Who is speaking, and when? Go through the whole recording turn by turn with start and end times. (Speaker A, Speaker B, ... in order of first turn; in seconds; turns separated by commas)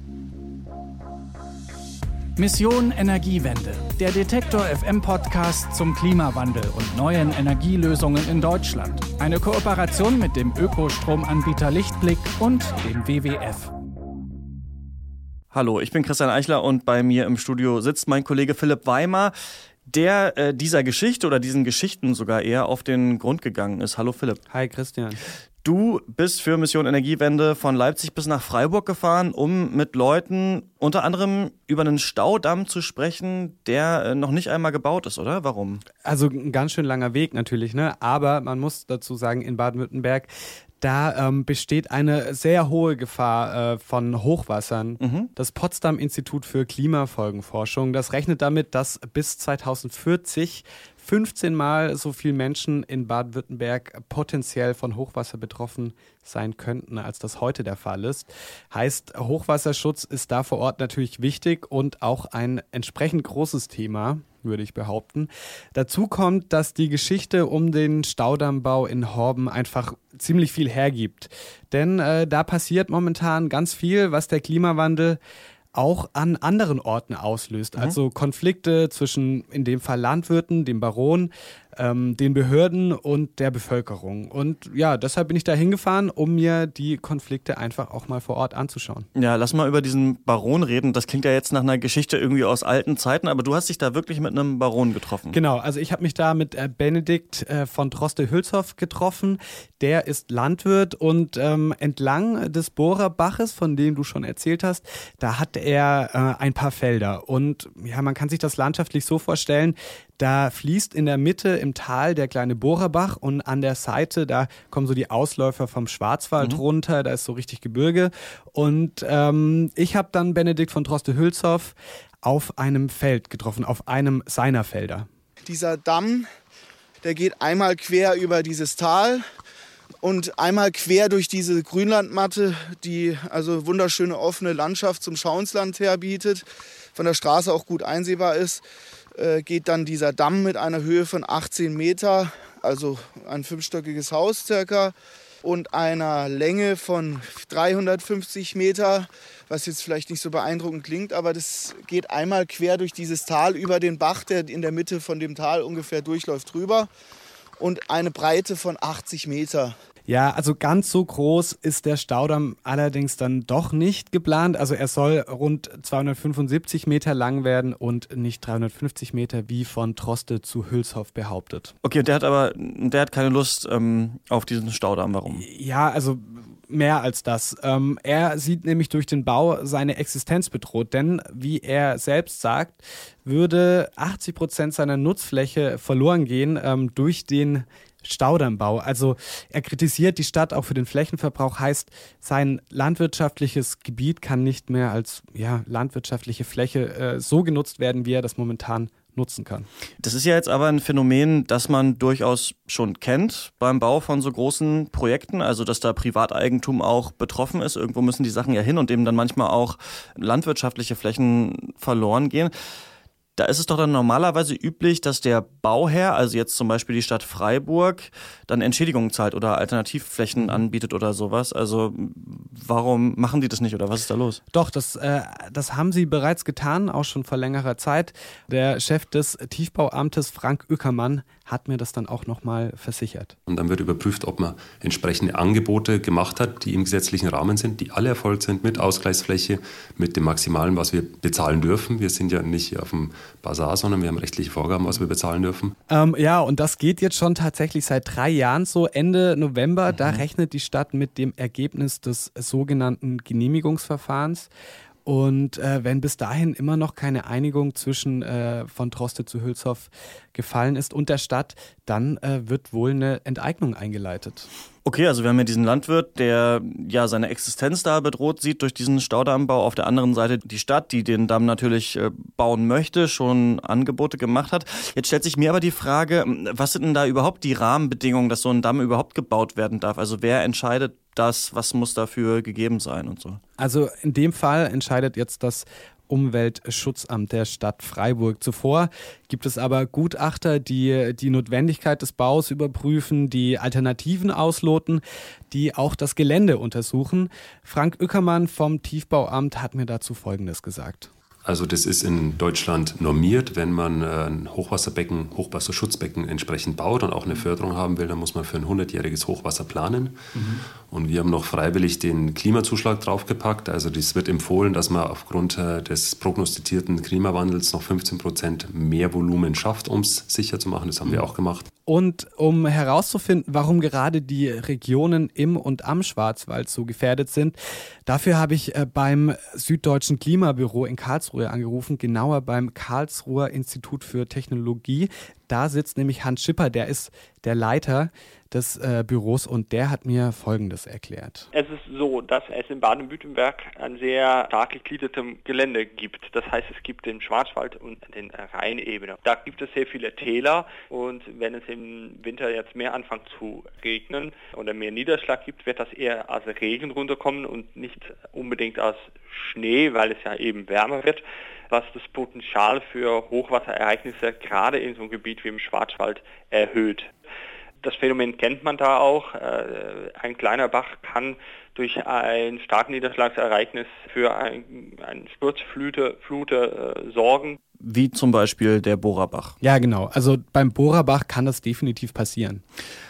Speaker A: 2.4-13.7, Speaker B: 15.5-19.3, Speaker B: 19.9-24.4, Speaker C: 24.5-25.2, Speaker B: 25.6-35.8, Speaker C: 36.0-40.3, Speaker C: 40.8-75.2, Speaker B: 45.0-45.3, Speaker C: 75.7-89.1, Speaker B: 89.2-95.4, Speaker C: 95.3-125.1, Speaker D: 125.5-126.2, Speaker D: 127.0-129.2, Speaker D: 130.0-136.4, Speaker D: 136.9-138.6, Speaker D: 139.2-156.9, Speaker D: 157.6-159.7, Speaker C: 160.1-171.7, Speaker B: 171.8-175.4, Speaker C: 175.3-199.7, Speaker B: 200.0-212.5, Speaker B: 213.4-224.4, Speaker C: 224.5-233.3, Speaker E: 233.5-245.7, Speaker C: 245.9-254.5, Speaker C: 255.1-264.5, Speaker B: 264.8-283.4, Speaker C: 283.6-301.1, Speaker E: 301.4-321.7, Speaker C: 321.9-341.5, Speaker F: 341.5-367.1, Speaker F: 367.8-377.6, Speaker B: 377.8-379.6, Speaker C: 379.6-382.6